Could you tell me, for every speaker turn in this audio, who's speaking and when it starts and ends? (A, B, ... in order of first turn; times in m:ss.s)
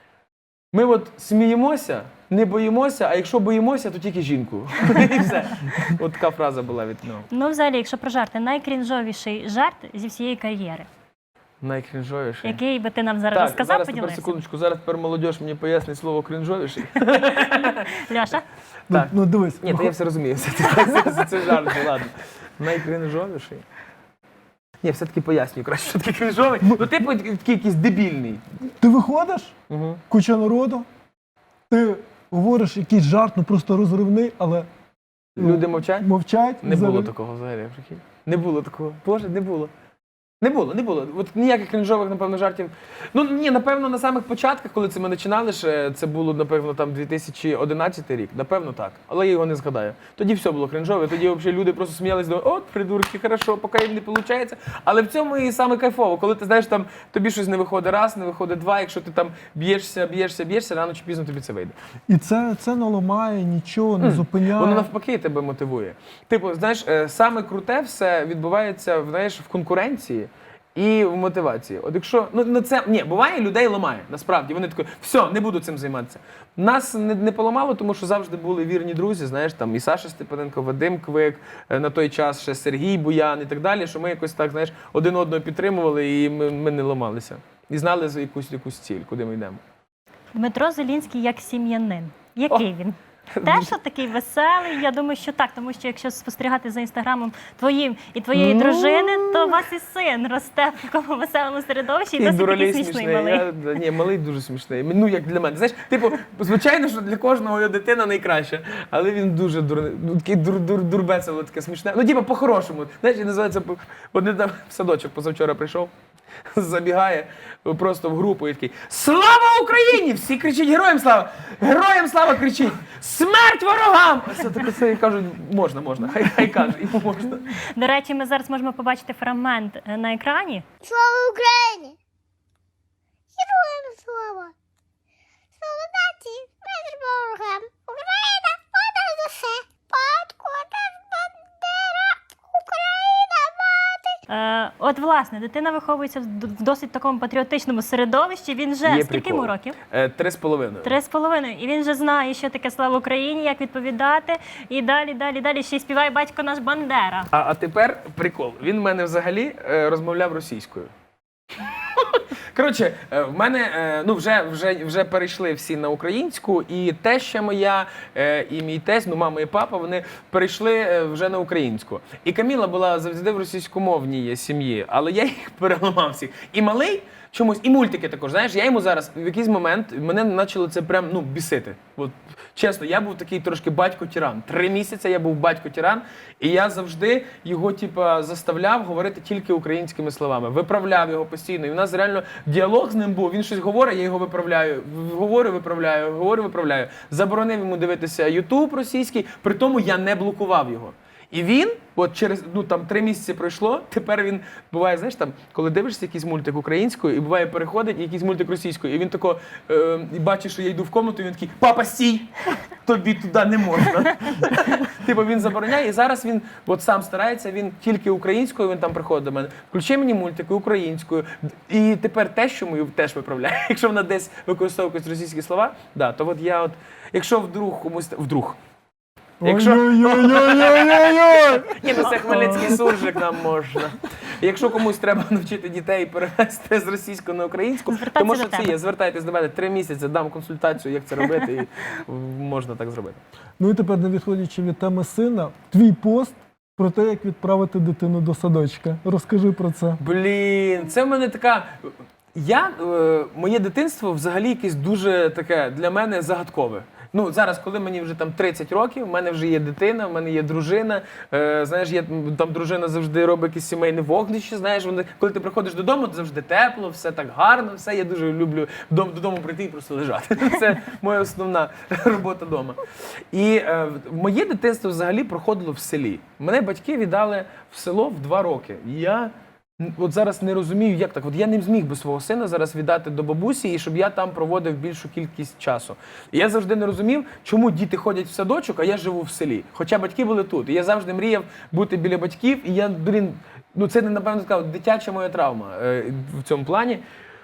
0:00.7-0:07.3 A
0:07.3-0:10.9 B
0:11.6-0:12.6 A
0:12.4-0:14.4 B
0:13.3-0:17.9 A
0:17.5-0:18.4 B
0:18.9-0:20.0 C
0:18.9-0:23.6 A
0:24.8-0:28.4 A
0:28.8-0:29.6 C
0:29.7-0:30.0 A
0:30.1-0:30.9 C
0:31.7-0:34.7 C
0:35.4-0:36.1 A
0:35.4-0:37.1 C
0:36.6-0:39.7 A
0:40.4-1:01.8 A
1:02.1-1:04.9 C
1:04.0-1:29.6 A
1:30.3-1:43.5 B
1:33.4-1:33.7 A
1:38.4-1:39.6 A
1:42.2-1:55.9 A
1:56.5-2:07.4 A
2:07.8-2:10.6 B
2:10.8-2:12.0 D
2:13.4-2:14.5 D
2:15.6-2:24.2 D
2:24.3-2:29.8 B
2:28.8-2:31.0 A
2:30.8-2:37.3 B
2:37.3-2:40.9 A
2:41.6-3:48.6 A
3:49.4-3:52.8 C
3:49.4-4:03.2 A
3:57.9-3:58.8 B
4:03.6-4:10.0 C
4:10.0-4:32.8 A
4:33.3-4:57.0 A